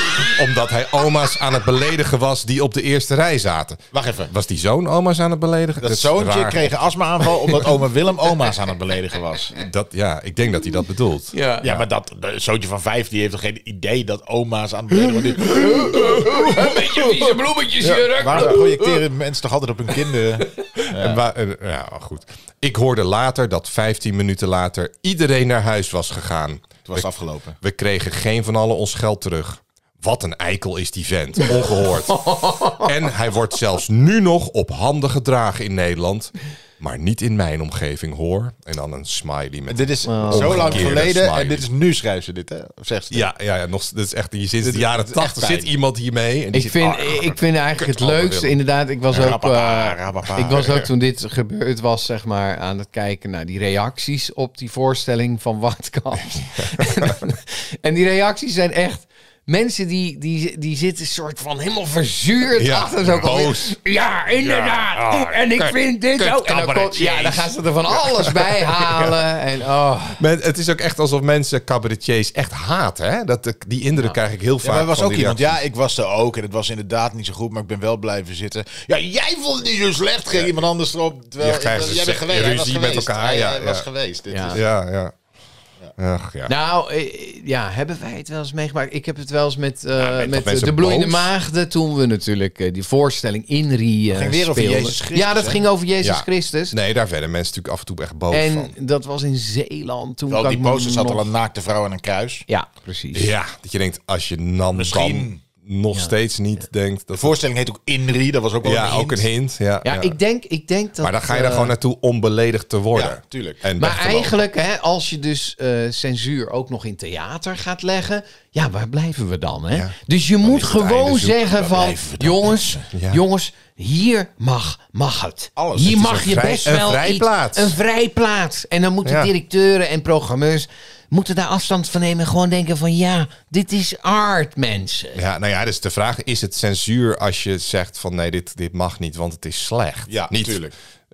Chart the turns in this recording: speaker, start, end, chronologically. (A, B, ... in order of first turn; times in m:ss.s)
0:00.1-0:06.7 A
0:03.9-0:04.3 B
0:05.8-0:09.6 B
0:09.6-0:11.9 A
0:11.3-0:11.6 C
0:11.6-0:16.8 B
0:15.4-0:19.0 C
0:17.9-0:18.6 A
0:18.1-0:21.2 B
0:20.9-0:27.0 A
0:26.9-0:27.6 B
0:27.6-0:41.6 A
0:32.1-0:32.9 C
0:39.7-0:43.3 B
0:40.1-0:40.9 C
0:43.1-0:48.6 A
0:44.6-0:45.7 B
0:46.5-1:10.2 C
0:49.1-0:50.6 B
0:56.6-0:57.1 A
1:02.6-1:03.8 A
1:04.4-1:07.4 A
1:07.0-1:07.4 B
1:07.9-1:09.2 A
1:10.2-1:15.4 A
1:14.6-1:24.6 B
1:21.4-1:23.9 A
1:24.3-1:24.6 C
1:24.5-1:25.1 A
1:26.0-1:26.5 A
1:26.5-1:36.8 C
1:30.0-1:31.3 A
1:34.1-1:35.6 B
1:36.0-1:38.7 A
1:38.3-1:41.3 C
1:40.3-1:42.5 B
1:42.5-1:43.3 C
1:43.1-1:47.4 A
1:44.7-1:45.4 B
1:47.2-1:49.3 B
1:48.6-1:50.2 A
1:49.8-1:51.7 C
1:51.0-1:54.4 A
1:52.9-1:53.6 B
1:53.8-2:15.2 C
1:59.7-2:01.4 A
2:01.3-2:02.8 B
2:02.9-2:03.2 A
2:05.6-2:06.1 B
2:05.9-2:07.8 A
2:09.0-2:09.3 A
2:15.1-2:20.6 A
2:20.1-2:20.7 B